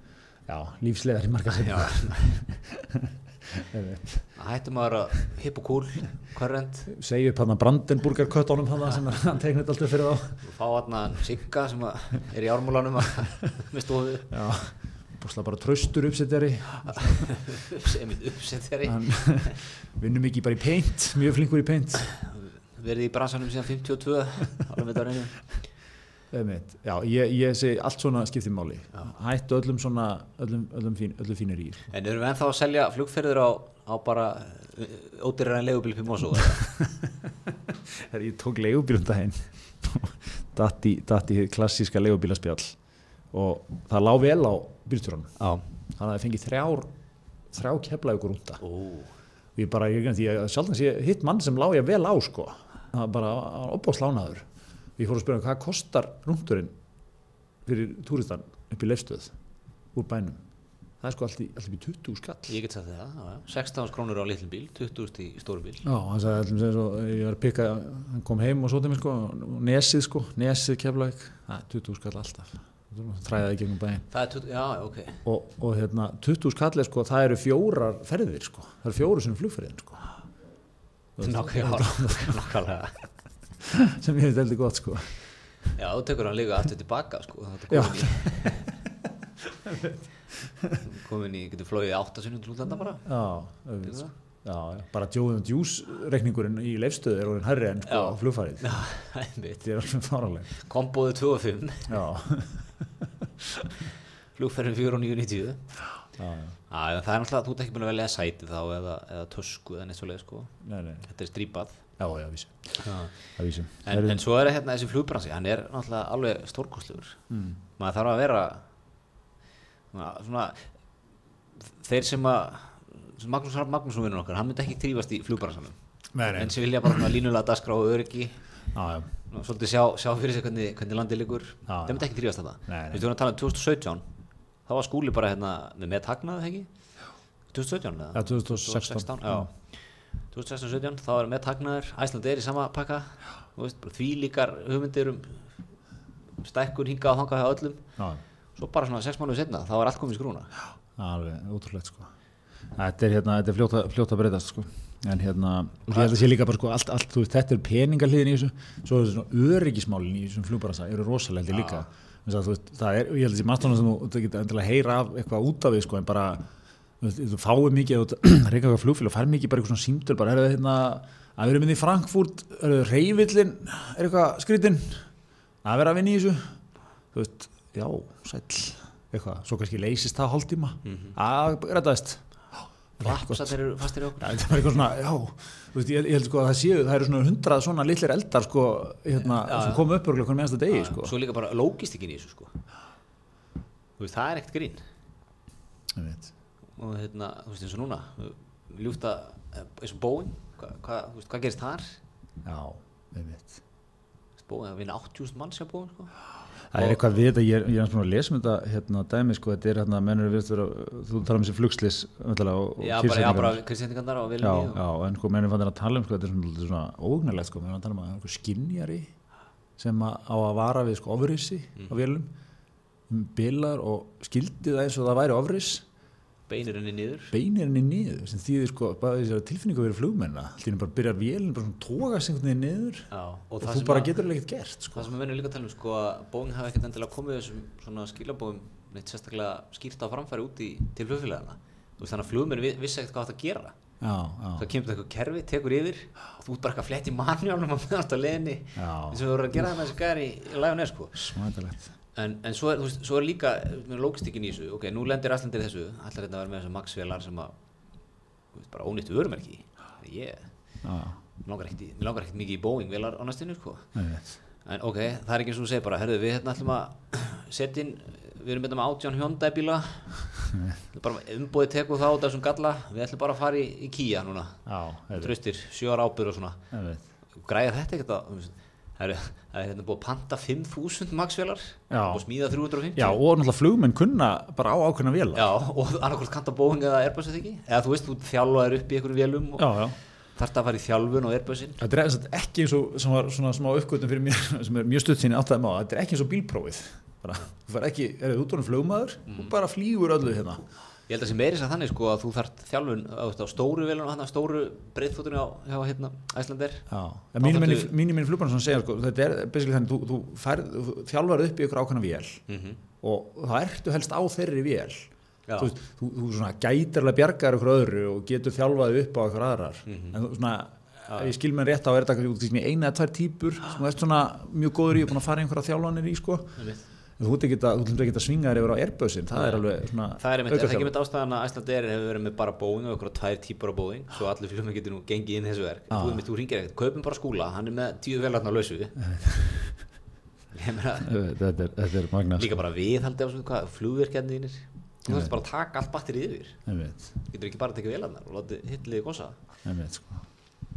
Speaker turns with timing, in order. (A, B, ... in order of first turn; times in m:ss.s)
0:00.5-0:04.3 A
0:01.5-0:02.4 B
0:04.4-0:06.9 B
0:06.9-0:10.4 A
0:10.4-0:14.3 B
0:14.3-0:17.3 A
0:16.9-0:19.6 B
0:18.8-0:22.1 A
0:22.2-0:25.4 B
0:26.3-0:31.9 A
0:31.9-0:36.7 B
0:36.7-0:42.8 A
0:43.3-0:45.4 A
0:45.4-0:45.6 B
0:46.0-0:46.9 A
0:47.5-0:48.6 A
0:48.6-0:49.1 B
0:49.6-0:56.7 A
0:57.6-0:59.3 A
0:59.9-1:00.4 A
1:01.0-1:02.5 A
1:02.5-1:05.8 B
1:05.8-1:14.0 A
1:14.1-1:15.2 B
1:15.2-1:20.1 A
1:21.2-1:22.4 A
1:21.2-1:23.1 B
1:23.6-1:25.2 A
1:25.8-1:28.7 B
1:27.7-1:28.5 A
1:29.4-1:30.8 A
1:30.8-1:33.1 B
1:33.0-1:38.7 A
1:33.8-1:34.1 B
1:37.9-1:39.7 B
1:39.6-1:40.5 A
1:40.5-1:42.0 B
1:41.9-1:43.7 A
1:44.3-1:45.8 B
1:46.2-1:46.5 A
1:46.7-1:50.5 B
1:50.6-1:51.0 A
1:51.0-1:51.8 B
1:52.0-1:54.2 A
1:52.8-1:57.2 B
1:57.3-1:57.6 A
1:57.8-1:58.6 B
1:59.9-2:00.7 B
2:01.8-2:05.8 B
2:06.1-2:06.6 A
2:06.3-2:08.4 B
2:08.7-2:09.1 A
2:09.3-2:14.0 B
2:11.7-2:12.1 A
2:12.7-2:13.0 A
2:14.6-2:16.7 B
2:17.5-2:25.5 B
2:18.1-2:19.5 A
2:26.4-2:27.9 B
2:28.6-2:30.5 B
2:31.0-2:32.1 A
2:32.8-2:46.5 A
2:35.9-2:36.3 B
2:41.5-2:41.8 B
2:47.0-2:55.1 A
2:55.6-2:56.6 A
2:57.1-3:03.6 A
3:00.8-3:01.2 B
3:03.0-3:04.8 B
3:04.2-3:11.1 A
3:09.2-3:09.9 B
3:10.7-3:12.6 B
3:14.0-3:14.8 B
3:15.9-3:16.3 A
3:16.8-3:22.0 B
3:22.4-3:23.6 A
3:24.4-3:27.2 B
3:26.7-3:33.6 A
3:32.8-3:34.8 B
3:34.4-3:39.1 A
3:39.8-3:42.3 A
3:43.1-3:45.8 A
3:46.5-3:47.3 B
3:47.3-3:53.1 A
3:53.1-3:54.1 B
3:53.6-3:55.1 A
3:54.9-4:03.8 B
4:04.0-4:04.7 A
4:04.6-4:11.3 B
4:08.8-4:09.7 A
4:11.1-4:11.9 A
4:12.1-4:17.5 B
4:18.5-4:20.7 B
4:20.8-4:21.2 A
4:21.4-4:24.0 B
4:23.9-4:24.3 A
4:24.6-4:34.6 B
4:30.5-4:30.8 A
4:34.6-4:35.3 A
4:35.1-4:36.6 B
4:36.7-4:37.0 A
4:37.4-4:43.2 B
4:41.9-4:42.2 A
4:42.9-4:45.5 A
4:45.3-4:51.8 B
4:49.6-4:50.0 A
4:51.8-5:00.6 A
4:59.3-4:59.5 B
5:01.1-5:06.9 B
5:06.9-5:12.4 A
5:07.4-5:07.9 B
5:12.5-5:12.8 B
5:13.0-5:15.1 A
5:15.5-5:15.7 B
5:15.6-5:26.6 A
5:19.8-5:20.2 B
5:21.1-5:21.3 B
5:26.6-5:26.8 B
5:27.2-5:30.9 A
5:29.3-5:39.0 B
5:35.9-5:36.2 A
5:39.0-5:39.8 A
5:40.5-5:41.1 B
5:41.0-5:42.5 A
5:42.4-5:46.6 B
5:45.1-5:45.3 A
5:46.7-5:47.1 A
5:47.3-5:49.4 B
5:49.6-5:50.2 A